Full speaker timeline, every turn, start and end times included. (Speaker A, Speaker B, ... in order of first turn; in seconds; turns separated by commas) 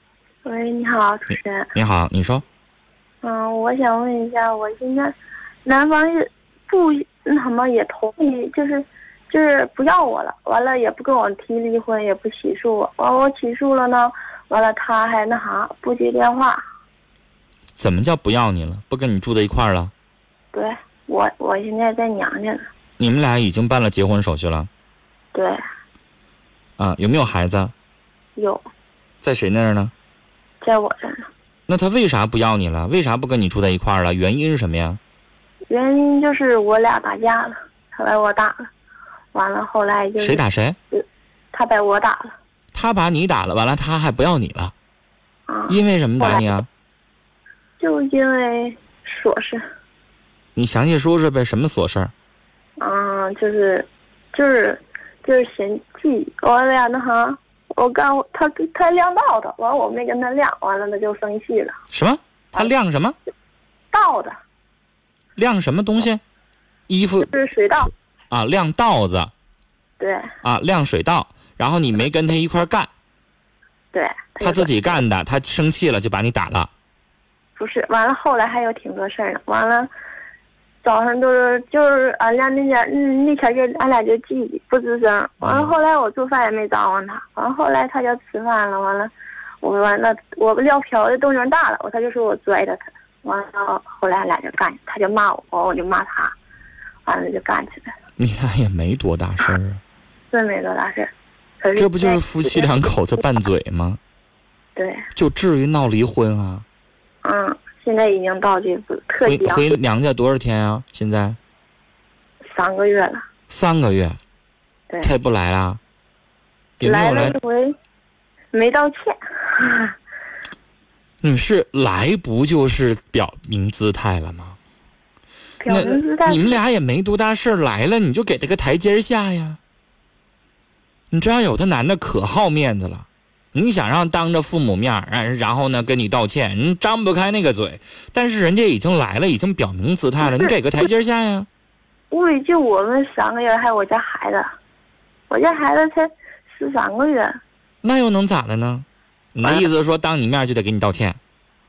Speaker A: 0.4-1.7, Speaker B: 1.7-2.4, Speaker A: 3.2-5.1, Speaker A: 5.6-16.6, Speaker B: 17.8-19.9, Speaker A: 20.5-22.7, Speaker B: 23.0-24.7, Speaker B: 26.8-27.7, Speaker A: 28.4-28.6, Speaker B: 29.2-29.9, Speaker A: 30.6-31.3, Speaker B: 31.7-35.0, Speaker A: 35.7-38.7, Speaker A: 39.3-40.4, Speaker B: 40.2-40.8, Speaker A: 40.9-42.4, Speaker B: 42.7-44.7, Speaker A: 45.5-46.6, Speaker B: 45.7-46.7, Speaker A: 47.8-49.6, Speaker B: 50.5-52.1, Speaker A: 52.8-61.7, Speaker B: 61.9-63.1, Speaker A: 63.9-64.3, Speaker B: 65.3-66.2, Speaker B: 66.9-67.3, Speaker A: 67.2-67.9, Speaker B: 68.3-69.3, Speaker A: 70.0-70.3, Speaker B: 70.4-72.9, Speaker A: 73.9-75.0, Speaker B: 74.4-76.7, Speaker A: 77.6-79.9, Speaker A: 80.8-89.1, Speaker B: 85.4-85.7, Speaker A: 89.6-96.3, Speaker A: 97.0-97.9, Speaker B: 98.2-99.8, Speaker A: 100.3-102.7, Speaker B: 101.8-104.0, Speaker A: 104.8-105.1, Speaker B: 105.1-106.7, Speaker A: 107.2-109.7, Speaker B: 109.2-111.4, Speaker A: 112.5-113.2, Speaker B: 113.5-114.2, Speaker B: 115.0-115.8, Speaker B: 116.8-117.3, Speaker A: 116.8-117.7, Speaker A: 118.5-119.9, Speaker B: 121.2-124.6, Speaker A: 125.6-126.6, Speaker B: 125.7-129.6, Speaker B: 131.1-141.5, Speaker A: 140.2-140.5, Speaker A: 142.1-144.5, Speaker A: 145.3-147.4, Speaker B: 147.8-151.2